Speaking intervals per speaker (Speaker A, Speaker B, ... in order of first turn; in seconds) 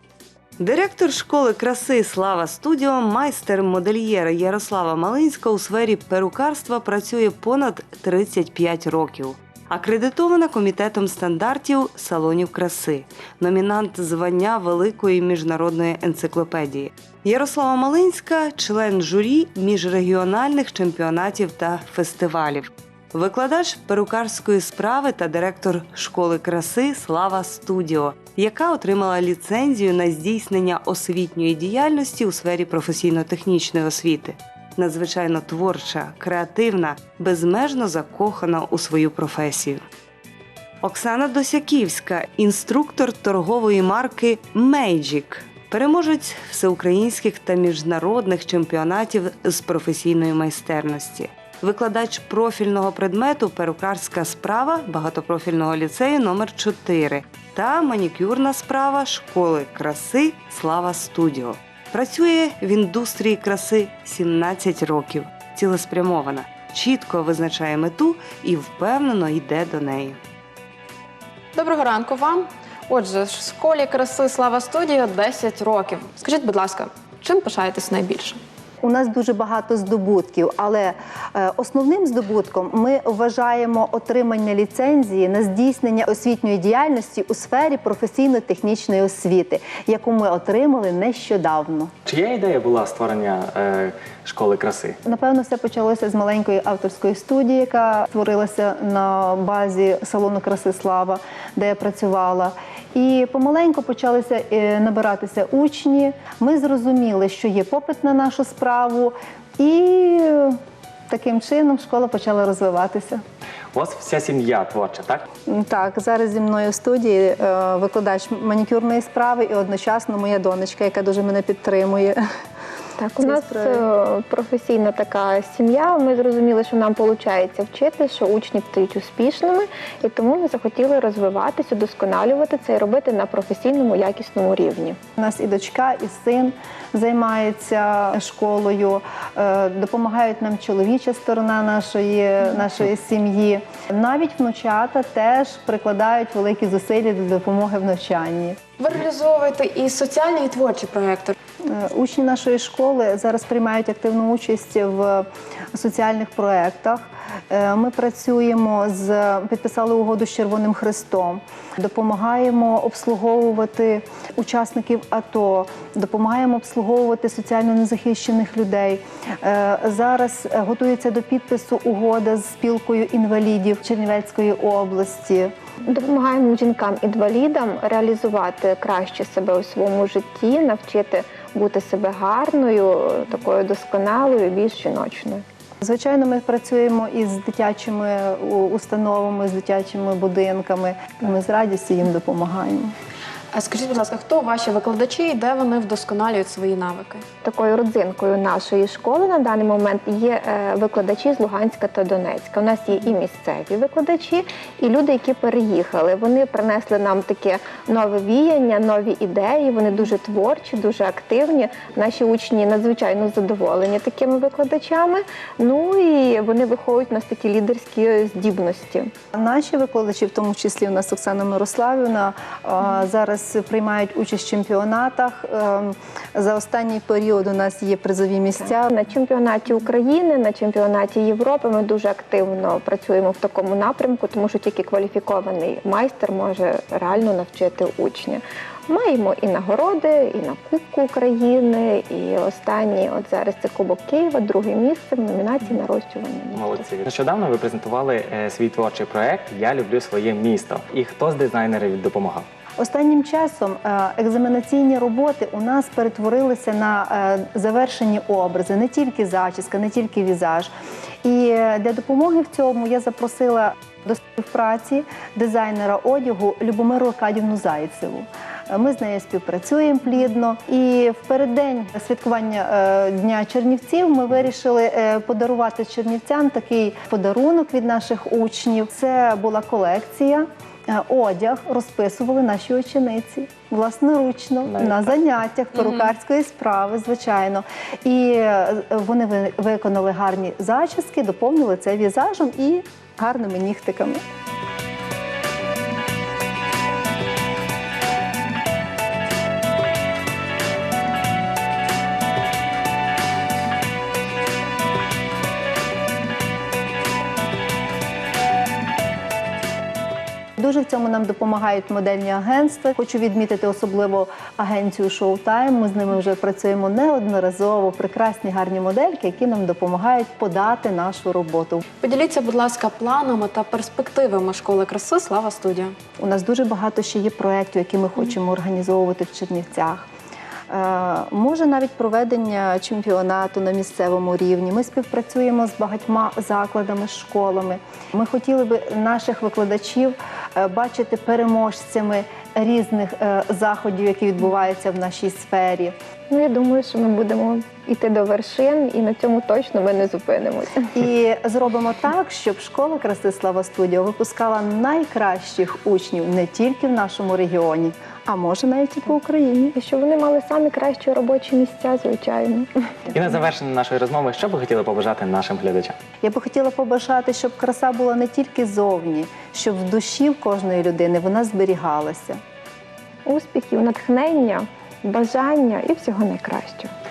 Speaker A: 0.6-39.8, 40.8-70.2
Speaker B: 71.5-78.4, 148.8-151.3, 193.5-197.2, 322.0-325.9
Speaker C: 78.8-91.9, 95.0-110.6, 111.1-113.2, 115.5-122.2, 123.2-123.8, 135.2-148.6, 151.7-175.5, 185.8-192.9, 219.3-228.9, 252.8-260.7, 261.2-294.2, 310.6-321.8, 326.2-330.1, 330.7-345.9, 350.9-359.7, 366.2-372.4
Speaker D: 92.0-95.0, 113.7-115.2, 246.5-252.5, 284.6-285.2, 363.1-366.0
Speaker E: 123.0-135.0, 175.8-185.4, 197.4-219.1, 228.6-246.8, 346.3-350.9, 359.7-363.1, 373.2-376.9